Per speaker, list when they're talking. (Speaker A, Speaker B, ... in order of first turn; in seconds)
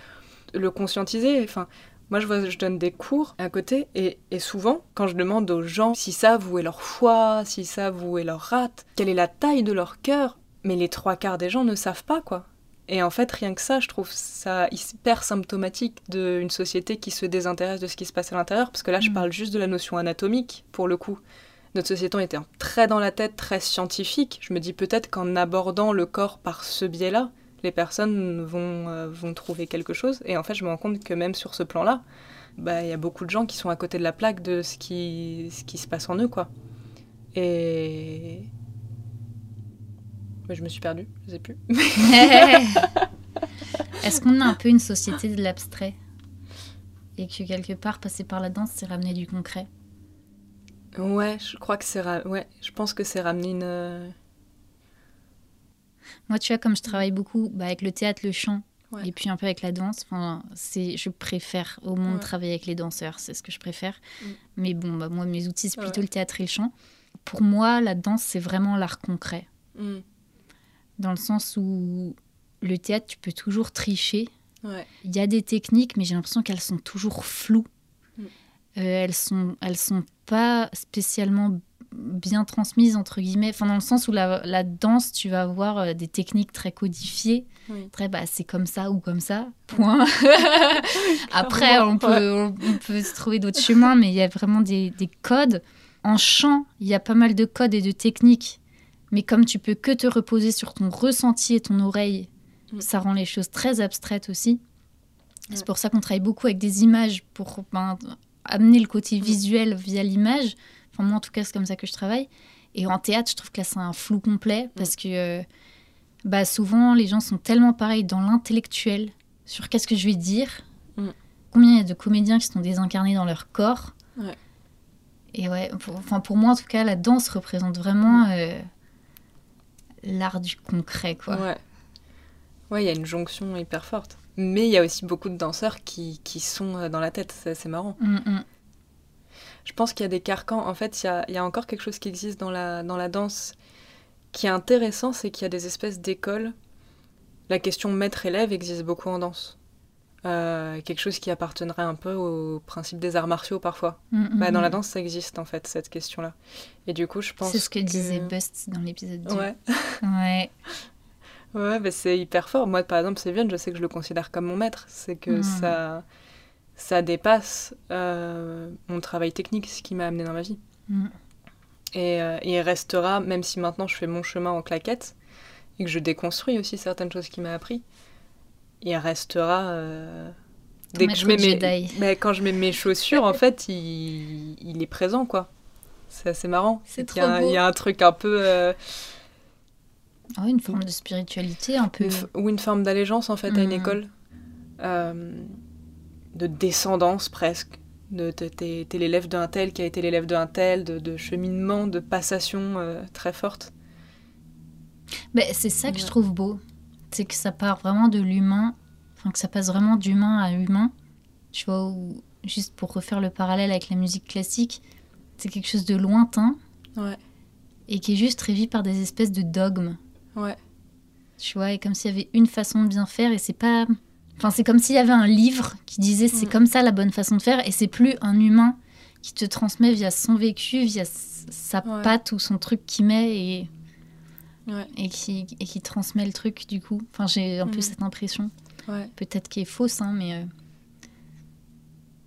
Speaker A: 0.5-21.2, 21.7-32.0, 32.6-36.5, 37.3-38.5, 40.5-43.0, 51.0-54.1, 65.8-66.0, 69.7-70.0, 90.9-92.8, 131.3-131.6, 132.7-138.0, 139.6-143.6, 144.3-146.5, 147.5-149.6, 150.2-158.3, 159.3-160.0, 161.5-166.0, 166.8-170.6, 171.9-175.1, 175.8-177.8, 178.8-180.3, 180.9-185.5, 186.1-188.8, 192.0-194.1, 194.8-195.6, 196.3-203.7, 226.3-226.6, 231.8-232.1, 237.7-237.9, 238.9-239.1
Speaker B: 19.0-19.2, 42.0-43.0, 44.0-46.0, 47.2-49.7, 56.3-64.0, 64.5-66.7, 67.2-69.5, 71.0-74.3, 75.0-77.7, 78.8-98.6, 99.1-104.6, 105.5-115.4, 116.2-120.6, 121.5-123.9, 125.3-128.7, 130.0-131.5, 138.0-138.4, 154.1-154.8, 157.4-159.5, 160.0-160.5, 165.3-165.8, 170.9-171.1, 180.9-182.0, 186.9-187.6, 190.4-192.3, 193.5-194.0, 205.3-210.9, 211.5-214.8, 215.4-216.6, 217.9-220.0, 221.4-233.7, 234.9-238.5, 239.2-240.5